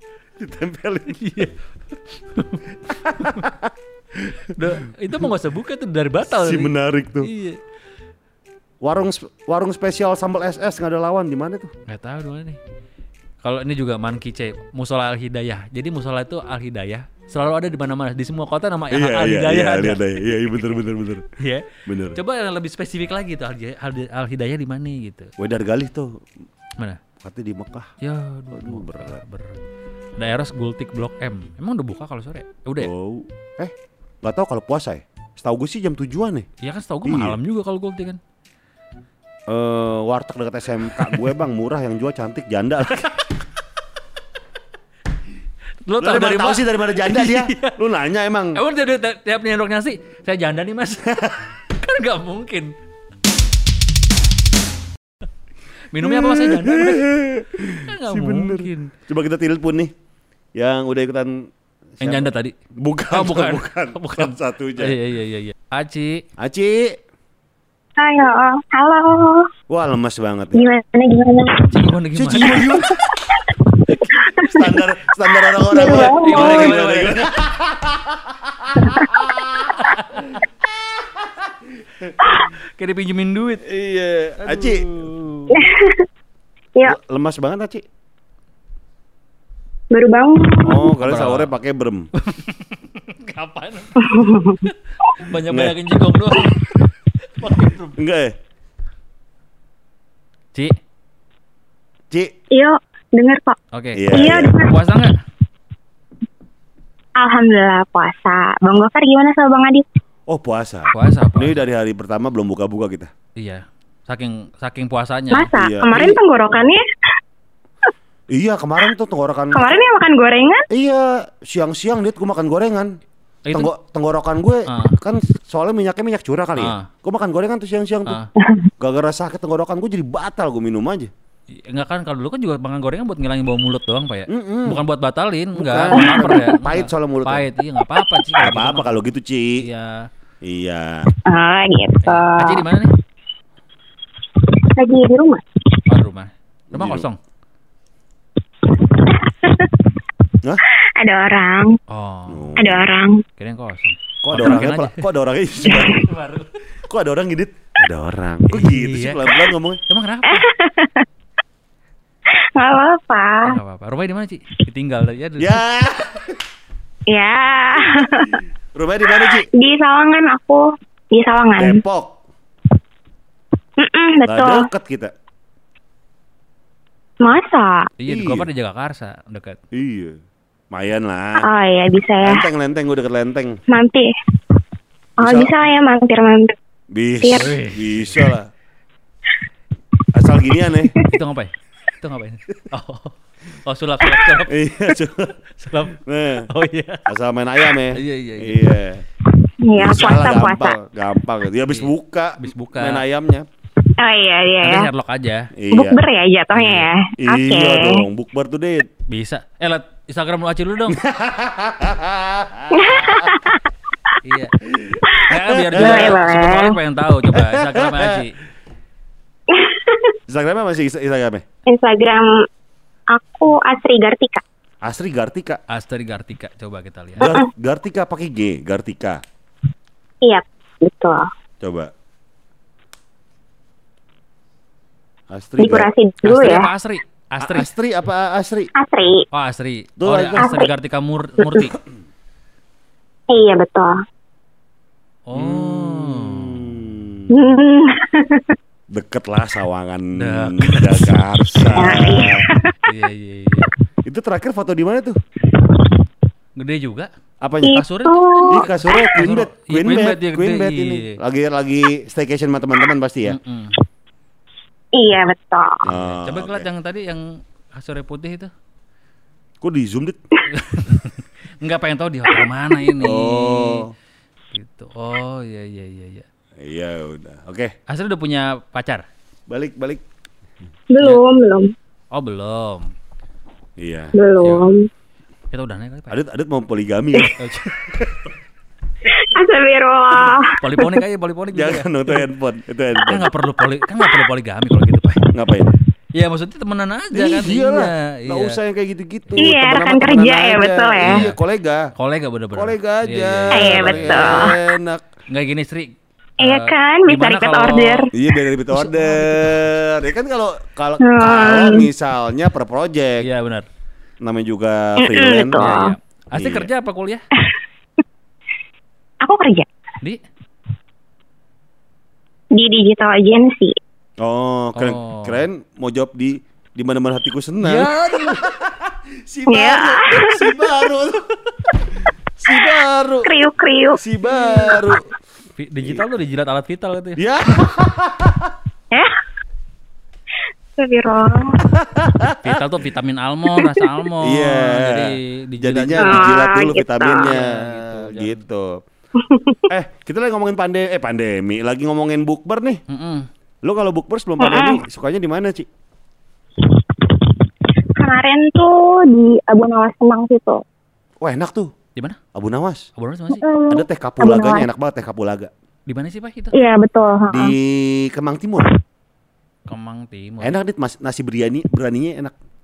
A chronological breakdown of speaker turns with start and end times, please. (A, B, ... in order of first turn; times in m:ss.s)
0:00.4-0:01.4 A
0:01.1-0:03.5 B
0:02.8-0:04.9 A
0:04.5-0:07.6 B
0:06.2-0:07.3 A
0:08.8-0:11.7 A
0:11.9-0:12.6 B
0:13.4-0:25.3 B
0:18.9-0:21.3 A
0:21.8-0:22.2 A
0:25.4-0:26.2 A
0:27.2-0:27.9 A
0:28.0-0:32.9 B
0:28.5-0:29.2 A
0:32.8-0:36.5 A
0:36.6-0:38.2 B
0:37.0-0:37.4 A
0:39.5-0:43.1 A
0:40.9-0:41.3 B
0:42.9-0:43.2 B
0:45.8-0:47.8 B
0:46.0-0:48.6 A
0:48.5-0:52.7 B
0:51.1-0:51.4 A
0:55.9-0:57.1 B
0:56.0-0:59.9 A
0:57.8-0:58.9 B
1:00.6-1:05.0 A
1:02.0-1:02.6 B
1:03.1-1:06.2 B
1:06.4-1:07.0 A
1:08.0-1:09.5 C
1:09.7-1:10.6 A
1:10.5-1:11.8 C
1:11.6-1:12.8 B
1:12.1-1:13.4 A
1:13.4-1:14.7 C
1:14.0-1:20.4 A
1:15.6-1:16.8 C
1:15.8-1:17.3 B
1:19.8-1:20.3 B
1:21.0-1:21.4 A
1:22.5-1:23.6 B
1:23.6-1:25.0 A
1:24.4-1:25.7 B
1:25.5-1:26.1 C
1:26.8-1:27.8 A
1:29.9-1:30.9 C
1:30.6-1:32.1 A
1:31.0-1:31.5 B
1:32.1-1:38.0 B
1:34.0-1:34.7 C
1:35.4-1:35.7 A
1:37.9-1:38.3 A
1:42.5-1:43.6 C
1:43.7-1:45.2 B
1:43.9-1:44.6 A
1:44.1-1:44.8 C
1:47.2-1:49.8 C
1:50.3-1:53.1 A
1:50.9-1:51.6 B
1:53.4-1:55.5 B
1:55.3-1:56.8 C
1:55.6-1:56.2 A
1:58.3-1:59.7 A
1:59.5-2:00.7 C
2:00.7-2:03.0 A
2:03.4-2:03.7 B
2:03.5-2:08.2 A
2:04.7-2:05.0 B
2:06.6-2:06.9 B
2:08.0-2:08.3 B
2:08.4-2:08.7 C
2:08.8-2:11.1 A
2:11.5-2:19.0 B
2:14.3-2:14.8 A
2:15.5-2:17.5 A
2:15.9-2:16.5 C
2:18.4-2:19.6 A
2:19.6-2:20.1 B
2:20.4-2:21.1 A
2:21.2-2:22.7 C
2:22.0-2:22.9 B
2:24.4-2:25.6 C
2:25.9-2:27.2 B
2:26.7-2:27.0 A
2:28.7-2:29.9 C
2:30.7-2:31.8 C
2:31.9-2:32.5 B
2:32.3-2:32.9 A
2:32.6-2:33.2 C
2:33.4-2:35.1 B
2:34.2-2:36.1 A
2:35.7-2:36.6 B
2:36.9-2:39.8 A
2:38.5-2:40.5 B
2:40.2-2:41.1 C
2:42.3-2:43.6 C
2:43.4-2:45.6 B
2:45.4-2:46.4 A
2:47.1-2:48.4 C
2:47.8-2:49.5 A
2:49.1-2:51.8 C
2:51.6-2:52.2 A
2:53.8-2:54.7 C
2:54.2-2:55.1 A
2:57.2-2:57.9 C
2:58.0-2:59.6 B
2:58.1-2:58.5 A
2:59.7-3:00.2 A
3:00.7-3:01.5 A
3:01.4-3:02.4 C
3:02.2-3:03.6 A
3:03.7-3:04.1 C
3:05.2-3:05.5 A
3:05.2-3:06.6 C
3:06.9-3:08.5 A
3:07.2-3:07.5 C
3:07.3-3:08.3 B
3:10.1-3:11.0 A
3:11.0-3:14.6 B
3:14.5-3:15.4 A
3:15.5-3:17.1 B
3:16.0-3:16.5 A
3:17.0-3:19.0 A
3:17.7-3:18.7 B
3:19.6-3:20.8 C
3:19.7-3:23.4 A
3:21.7-3:23.0 B
3:23.8-3:24.9 C
3:24.6-3:25.5 B
3:25.5-3:26.0 A
3:25.7-3:28.0 C
3:26.5-3:26.9 B
3:27.2-3:28.9 A
3:29.1-3:31.0 B
3:30.9-3:33.4 A
3:32.7-3:34.1 C
3:34.2-3:34.5 B
3:34.6-3:36.2 A
3:35.2-3:38.3 B
3:35.7-3:36.8 C
3:37.3-3:38.2 A
3:39.5-3:40.1 C
3:40.3-3:41.4 A
3:41.7-3:42.4 C
3:43.1-3:44.4 C
3:44.8-3:45.6 A
3:45.7-3:47.4 B
3:47.2-3:49.2 A
3:47.2-3:47.5 C
3:50.2-3:51.3 C
3:51.6-3:51.9 A
3:55.3-3:55.9 A
3:55.6-3:56.7 C
3:56.2-3:57.7 B
3:57.4-3:58.7 A
3:58.7-3:59.2 C
3:59.3-4:01.7 B
4:00.0-4:00.5 A
4:00.4-4:00.7 C
4:01.4-4:01.7 C
4:03.3-4:04.0 C
4:05.3-4:06.7 B
4:05.3-4:07.3 A
4:07.3-4:08.6 C
4:08.9-4:12.5 A
4:10.1-4:12.0 B
4:11.8-4:12.8 C
4:12.8-4:13.7 B
4:14.0-4:15.2 A
4:16.6-4:17.1 B
4:17.4-4:17.8 A
4:17.6-4:21.2 B
4:17.6-4:19.0 C
4:18.5-4:23.4 A
4:23.3-4:23.8 B
4:24.9-4:25.8 C
4:25.8-4:26.7 A
4:25.9-4:28.5 B
4:29.6-4:30.2 A
4:30.5-4:33.8 B
4:33.0-4:33.9 A
4:34.5-4:36.2 B
4:36.6-4:37.7 A
4:37.9-4:39.0 B
4:39.5-4:40.0 A
4:40.9-4:41.7 C
4:42.1-4:42.9 B
4:43.8-4:44.2 A
4:44.1-4:44.9 C
4:44.4-4:44.6 B
4:45.5-4:46.2 B
4:46.1-4:48.3 A
4:47.4-4:47.9 B
4:49.0-4:51.0 C
4:50.5-4:52.3 B
4:51.5-4:53.3 A
4:53.0-4:55.2 B
4:55.3-4:55.8 A
4:56.1-4:58.6 B
4:57.1-5:01.9 A
4:59.4-5:01.2 C
5:01.0-5:01.4 B
5:02.0-5:04.6 B
5:02.5-5:05.1 A
5:03.5-5:04.6 C
5:05.3-5:08.1 B
5:06.4-5:08.3 C
5:08.1-5:13.2 A
5:08.7-5:09.7 B
5:11.0-5:11.9 C
5:13.2-5:13.7 B
5:14.2-5:15.8 A
5:15.0-5:15.9 C
5:15.5-5:17.2 B
5:16.4-5:16.7 A
5:19.2-5:19.7 C
5:22.5-5:23.8 C
5:24.2-5:31.3 A
5:24.7-5:25.4 B
5:27.6-5:28.4 B
5:29.5-5:30.9 C
5:32.4-5:33.3 A
5:32.5-5:34.8 C
5:34.0-5:35.0 A
5:35.6-5:37.2 B
5:37.2-5:38.5 A
5:40.8-5:41.6 C
5:41.6-5:42.6 A
5:42.4-5:46.5 B
5:43.6-5:43.9 C
5:44.2-5:48.8 A
5:46.0-5:47.3 C
5:47.1-5:48.4 B
5:49.2-5:49.6 C
5:49.7-5:52.8 A
5:52.9-5:53.3 B
5:53.6-5:55.7 A
5:54.4-5:54.8 C
5:56.6-5:57.3 C
5:58.0-6:00.6 C
6:01.2-6:01.7 A
6:02.3-6:02.9 A
6:03.0-6:03.5 B
6:03.3-6:04.7 C
6:03.7-6:05.5 A
6:05.9-6:06.5 B
6:06.5-6:07.6 C
6:07.3-6:08.7 A
6:09.7-6:10.6 B
6:10.4-6:12.4 A